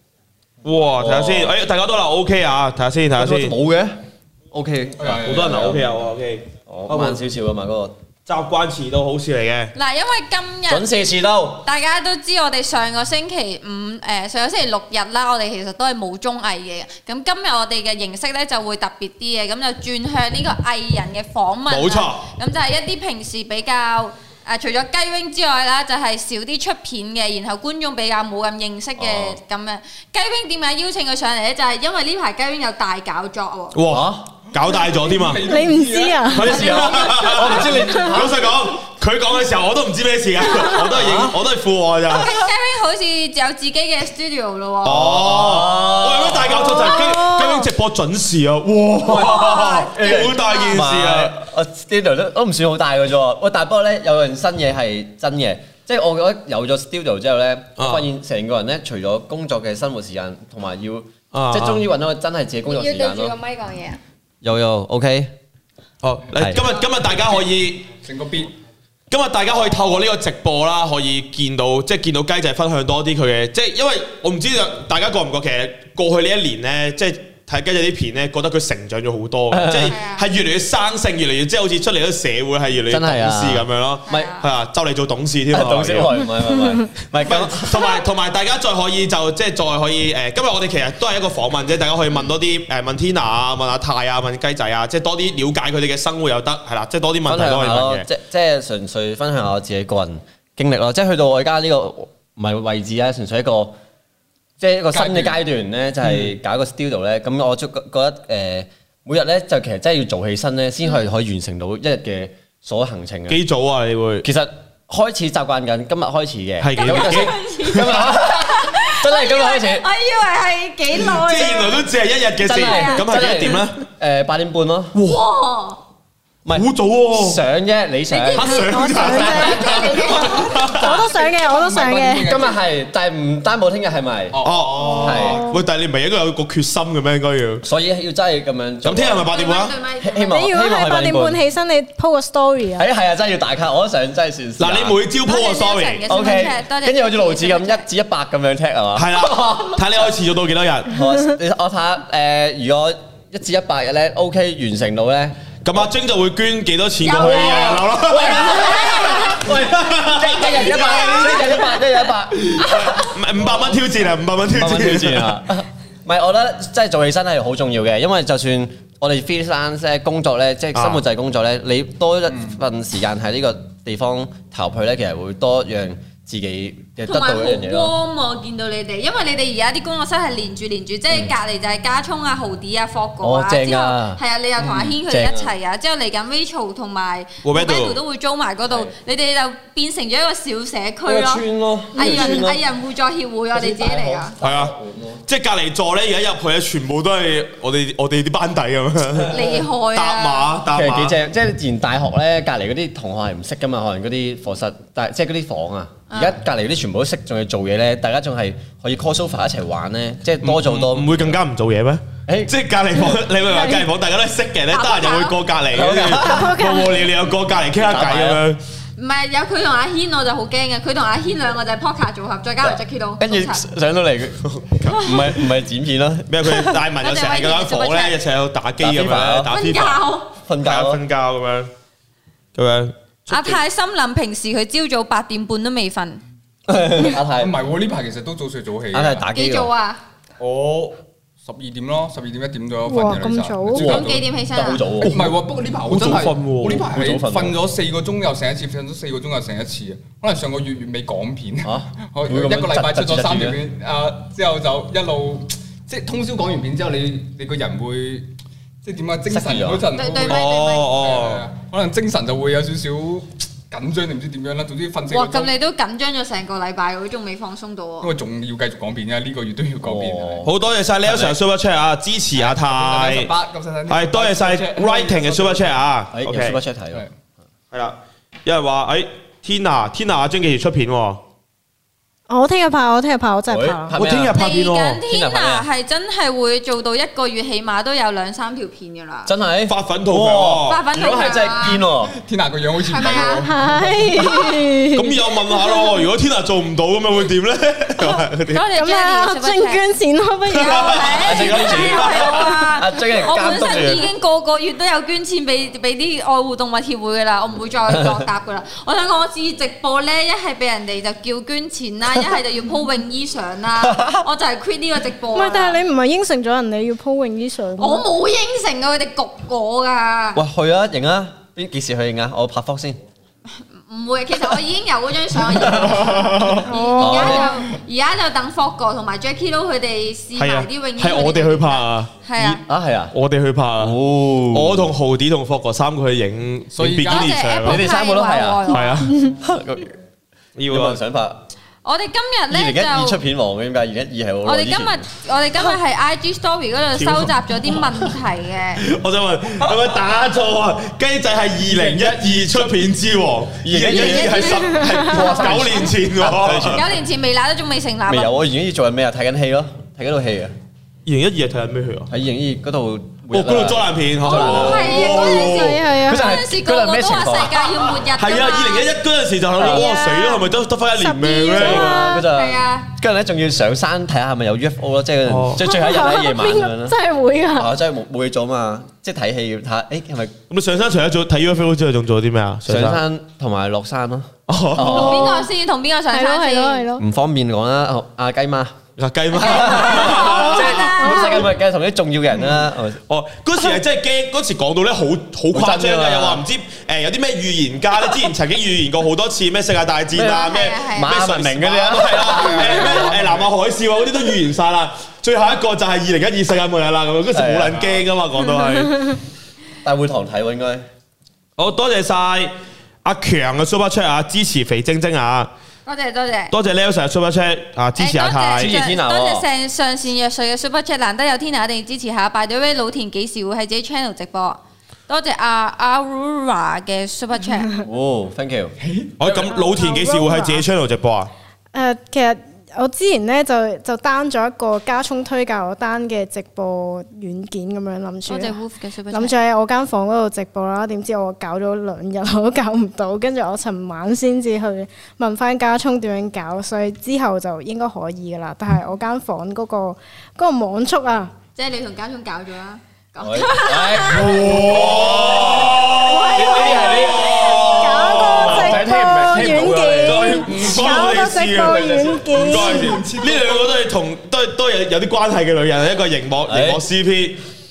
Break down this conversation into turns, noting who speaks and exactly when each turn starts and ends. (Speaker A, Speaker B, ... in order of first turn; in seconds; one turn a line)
Speaker A: 0.6-3.5
Speaker B: 1.0-1.6
Speaker B: 3.1-4.0
Speaker B: 4.5-5.9
Speaker C: 5.0-5.8
Speaker A: 5.1-7.2
Speaker B: 6.7-7.9
Speaker A: 8.3-9.7
Speaker D: 9.8-10.8
Speaker B: 10.7-11.6
Speaker D: 11.6-33.8
Speaker A: 21.7-22.2
Speaker B: 29.0-29.4
Speaker A: 33.7-35.5
Speaker B: 33.9-34.3
Speaker C: 34.7-36.4
Speaker E: 35.4-36.6
Speaker B: 36.3-38.5
Speaker A: 36.4-42.4
Speaker D: 36.4-37.8
Speaker B: 40.8-41.4
Speaker D: 42.1-45.1
Speaker B: 44.9-46.9
Speaker A: 44.9-51.4
Speaker E: 46.5-47.7
Speaker B: 49.0-63.3
Speaker D: 49.3-49.8
Speaker D: 50.5-50.7
Speaker A: 57.8-58.1
Speaker A: 61.3-61.9
Speaker D: 62.7-64.0
Speaker B: 64.4-65.3
Speaker A: 66.0-67.9
Speaker B: 66.4-66.6
Speaker C: 66.6-67.5
Speaker C: 68.0-68.5
Speaker A: 69.1-86.3
Speaker B: 79.5-80.0
Speaker D: 79.9-80.3
Speaker B: 82.9-84.3
Speaker D: 84.1-84.5
Speaker B: 85.5-87.9
Speaker A: 87.2-98.1
Speaker B: 97.3-103.8
Speaker B: 104.6-113.4
Speaker C: 104.9-105.4
Speaker A: 113.3-114.3
Speaker B: 114.2-119.8
Speaker A: 116.6-117.9
Speaker D: 116.8-121.9
Speaker A: 121.0-123.8
Speaker B: 122.4-124.9
Speaker D: 122.6-123.5
Speaker A: 124.9-125.2
Speaker D: 125.0-125.8
Speaker B: 126.5-130.1
Speaker A: 126.5-127.4
Speaker D: 128.1-130.6
Speaker A: 128.4-131.0
Speaker E: 128.4-132.3
Speaker C: 130.0-132.6
Speaker B: 132.2-134.4
Speaker C: 134.3-135.4
Speaker A: 134.4-137.6
Speaker B: 135.0-135.4
Speaker E: 135.1-135.5
Speaker B: 137.6-139.3
Speaker A: 138.8-139.8
Speaker D: 139.3-140.3
Speaker B: 140.0-141.4
Speaker E: 140.3-142.9
Speaker B: 142.8-145.0
Speaker A: 144.6-146.4
Speaker D: 145.2-147.8
Speaker B: 146.1-150.1
Speaker A: 148.9-150.9
Speaker B: 150.9-155.9
Speaker A: 155.6-158.7
Speaker D: 157.0-159.5
Speaker B: 157.2-163.0
Speaker A: 159.5-161.8
Speaker D: 160.4-161.6
Speaker A: 162.4-165.4
Speaker D: 162.6-163.0
Speaker C: 163.4-163.9
Speaker B: 164.5-177.9
Speaker A: 170.8-171.0
Speaker D: 177.1-194.4
Speaker B: 183.2-184.2
Speaker C: 184.6-185.0
Speaker B: 185.0-185.5
Speaker A: 187.4-188.0
Speaker B: 188.7-188.9
Speaker B: 191.1-192.6
Speaker E: 192.0-192.5
Speaker B: 193.5-195.2
Speaker A: 194.4-194.7
Speaker A: 195.3-201.2
Speaker B: 199.2-199.7
Speaker D: 199.3-200.5
Speaker B: 200.7-211.3
Speaker D: 206.1-206.4
Speaker A: 210.4-218.6
Speaker B: 212.3-212.5
Speaker D: 213.5-213.9
Speaker D: 214.7-215.4
Speaker B: 215.7-216.6
Speaker E: 216.2-217.1
Speaker B: 217.8-218.4
Speaker D: 219.0-223.6
Speaker B: 222.6-226.8
Speaker A: 224.5-225.5
Speaker D: 224.9-225.1
Speaker A: 226.3-230.1
Speaker D: 227.0-228.2
Speaker B: 228.8-229.6
Speaker D: 229.4-230.3
Speaker B: 230.5-231.0
Speaker A: 230.6-231.7
Speaker A: 232.6-233.6
Speaker D: 233.3-236.2
Speaker B: 236.7-237.5
Speaker C: 237.4-239.3
Speaker B: 238.9-239.7
Speaker D: 239.3-240.0
Speaker C: 240.4-244.2
Speaker E: 242.9-243.9
Speaker D: 243.7-244.9
Speaker B: 243.8-245.3
Speaker C: 245.0-258.3
Speaker A: 245.9-246.9
Speaker B: 246.9-247.6
Speaker B: 251.6-253.6
Speaker C: 258.8-260.5
Speaker B: 259.3-259.9
Speaker D: 259.9-260.9
Speaker A: 260.2-261.4
Speaker C: 261.0-265.5
Speaker D: 265.1-268.1
Speaker C: 268.0-270.5
Speaker B: 269.8-270.5
Speaker A: 270.4-273.3
Speaker C: 272.4-275.8
Speaker A: 273.9-276.6
Speaker B: 276.1-277.1
Speaker A: 277.7-281.2
Speaker E: 282.3-283.9
Speaker B: 283.5-284.4
Speaker A: 283.9-285.0
Speaker D: 284.3-289.3
Speaker B: 285.1-285.7
Speaker B: 289.3-292.1
Speaker A: 289.7-290.8
Speaker D: 290.7-291.8
Speaker C: 291.7-294.3
Speaker D: 292.9-293.5
Speaker E: 293.2-295.2
Speaker A: 294.9-298.6
Speaker D: 298.5-299.8
Speaker E: 298.7-301.1
Speaker D: 300.4-315.8
Speaker A: 300.6-302.5
Speaker B: 301.2-304.1
Speaker B: 307.9-308.2
Speaker B: 313.8-314.2
Speaker E: 315.4-318.1
Speaker D: 317.8-320.4
Speaker B: 320.4-323.0
Speaker D: 323.9-332.6
Speaker B: 325.5-326.1
Speaker C: 325.9-326.6
Speaker E: 326.5-327.7
Speaker B: 327.0-327.6
Speaker A: 330.4-332.1
Speaker B: 332.4-333.1
Speaker A: 333.1-334.0
Speaker B: 333.8-334.9
Speaker A: 334.5-337.9
Speaker C: 336.8-337.3
Speaker D: 337.1-339.0
Speaker B: 337.6-338.7
Speaker A: 338.7-339.2
Speaker B: 339.2-339.9
Speaker A: 340.6-341.0
Speaker B: 340.7-341.4
Speaker D: 341.8-343.2
Speaker B: 342.5-345.1
Speaker D: 344.4-348.8
Speaker A: 347.0-348.1
Speaker A: 348.8-356.9
Speaker C: 351.6-352.9
Speaker B: 353.6-354.6
Speaker D: 353.9-354.8
Speaker E: 354.8-355.2
Speaker B: 355.2-356.9
Speaker D: 356.6-358.4
Speaker B: 358.1-360.5
Speaker A: 361.1-362.1
Speaker B: 362.1-365.3
Speaker A: 363.3-365.8
Speaker D: 364.2-368.9
Speaker E: 365.2-366.3
Speaker B: 366.0-367.9
Speaker A: 368.1-372.1
Speaker B: 369.6-369.9
Speaker E: 369.7-372.2
Speaker D: 370.0-370.3
Speaker B: 371.5-377.0
Speaker D: 371.6-372.9
Speaker A: 375.3-375.7
Speaker E: 375.6-377.7
Speaker B: 377.6-380.4
Speaker A: 380.5-383.0
Speaker B: 382.7-385.4
Speaker A: 384.5-385.4
Speaker D: 384.8-386.9
Speaker E: 384.9-385.4
Speaker E: 386.1-387.0
Speaker B: 387.0-388.8
Speaker A: 389.0-391.0
Speaker B: 389.3-393.0
Speaker D: 389.4-391.5
Speaker E: 391.0-391.5
Speaker A: 393.1-409.2
Speaker B: 395.5-396.4
Speaker B: 400.1-403.2
Speaker D: 400.2-401.2
Speaker C: 402.1-403.5
Speaker B: 407.3-408.0
Speaker B: 409.8-410.9
Speaker A: 411.6-412.5
Speaker A: 413.0-415.5
Speaker D: 415.9-416.5
Speaker A: 416.5-418.8
Speaker D: 418.0-427.8
Speaker B: 418.6-419.4
Speaker B: 427.8-428.8
Speaker C: 428.8-429.6
Speaker A: 429.2-431.3
Speaker E: 429.6-430.6
Speaker E: 431.7-438.6
Speaker D: 438.3-439.4
Speaker E: 439.1-451.3
Speaker D: 451.6-454.5
Speaker B: 453.2-460.8
Speaker A: 454.1-458.9
Speaker C: 454.6-455.6
Speaker D: 456.0-457.6
Speaker C: 456.7-457.2
Speaker E: 457.4-463.1
Speaker A: 460.0-467.4
Speaker C: 460.5-461.0
Speaker C: 461.6-463.7
Speaker B: 466.5-466.8